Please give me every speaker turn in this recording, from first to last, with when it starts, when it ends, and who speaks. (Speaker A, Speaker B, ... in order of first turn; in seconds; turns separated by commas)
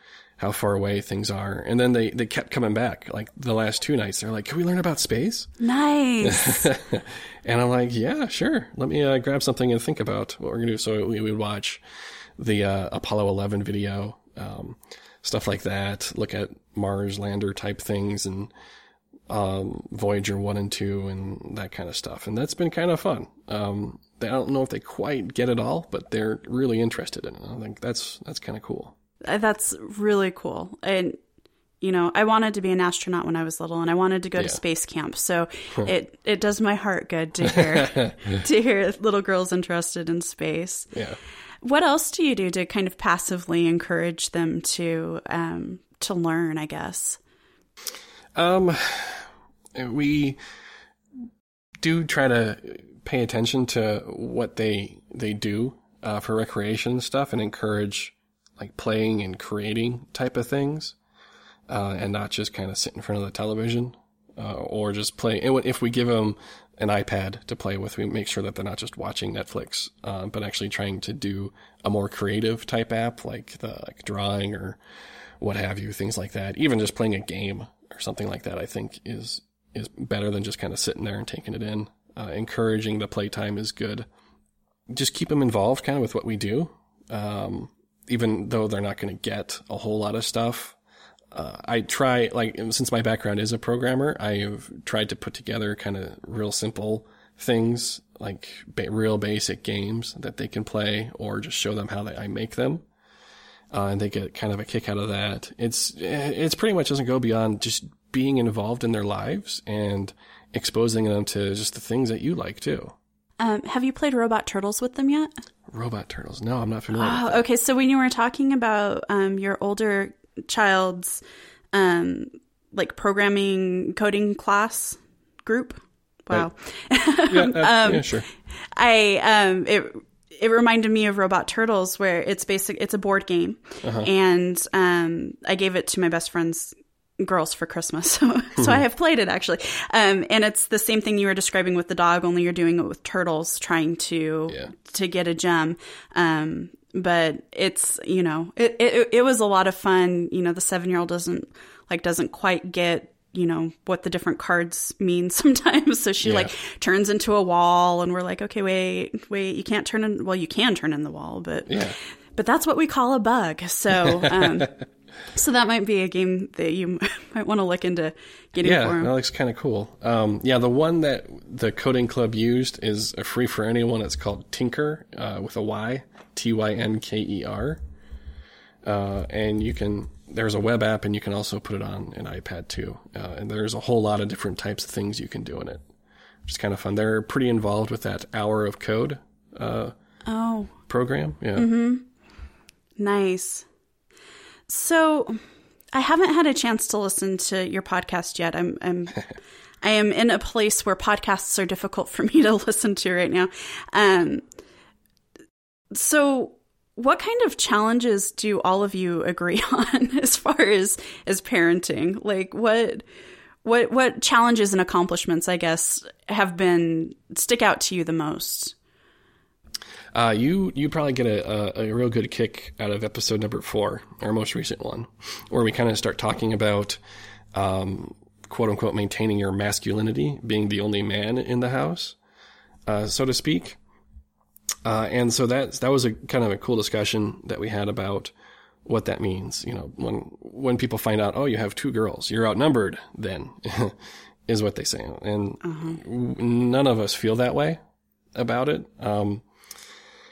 Speaker A: 0.4-5.5, Speaker B: 5.6-6.7, Speaker A: 6.2-11.8, Speaker A: 12.4-18.5, Speaker A: 19.3-28.9, Speaker B: 29.2-31.2, Speaker B: 31.8-40.9, Speaker A: 37.5-38.1, Speaker A: 40.9-41.2, Speaker B: 41.6-47.2, Speaker A: 48.4-50.4, Speaker A: 51.8-61.0, Speaker A: 61.7-74.8, Speaker A: 75.4-84.0, Speaker A: 84.9-90.8, Speaker A: 91.3-102.8, Speaker A: 103.7-112.9, Speaker B: 113.4-115.3, Speaker A: 115.7-117.4, Speaker B: 116.9-121.2, Speaker B: 121.7-128.2, Speaker A: 127.3-128.3, Speaker B: 128.7-164.7, Speaker A: 133.8-134.1, Speaker A: 156.2-156.5, Speaker A: 161.7-161.9, Speaker A: 164.0-164.7, Speaker B: 165.3-169.1, Speaker A: 168.6-177.8, Speaker A: 178.8-185.8, Speaker A: 186.4-189.9, Speaker B: 190.2-190.7, Speaker A: 190.9-191.7, Speaker B: 191.6-192.1, Speaker B: 193.0-193.7, Speaker B: 194.7-195.4, Speaker B: 195.9-199.2, Speaker B: 199.8-204.4, Speaker B: 205.9-213.0, Speaker B: 213.6-218.7, Speaker A: 220.1-227.0, Speaker A: 227.5-232.2, Speaker A: 232.9-233.8, Speaker A: 234.8-238.3, Speaker A: 238.8-247.8, Speaker B: 245.6-246.0, Speaker A: 248.3-249.4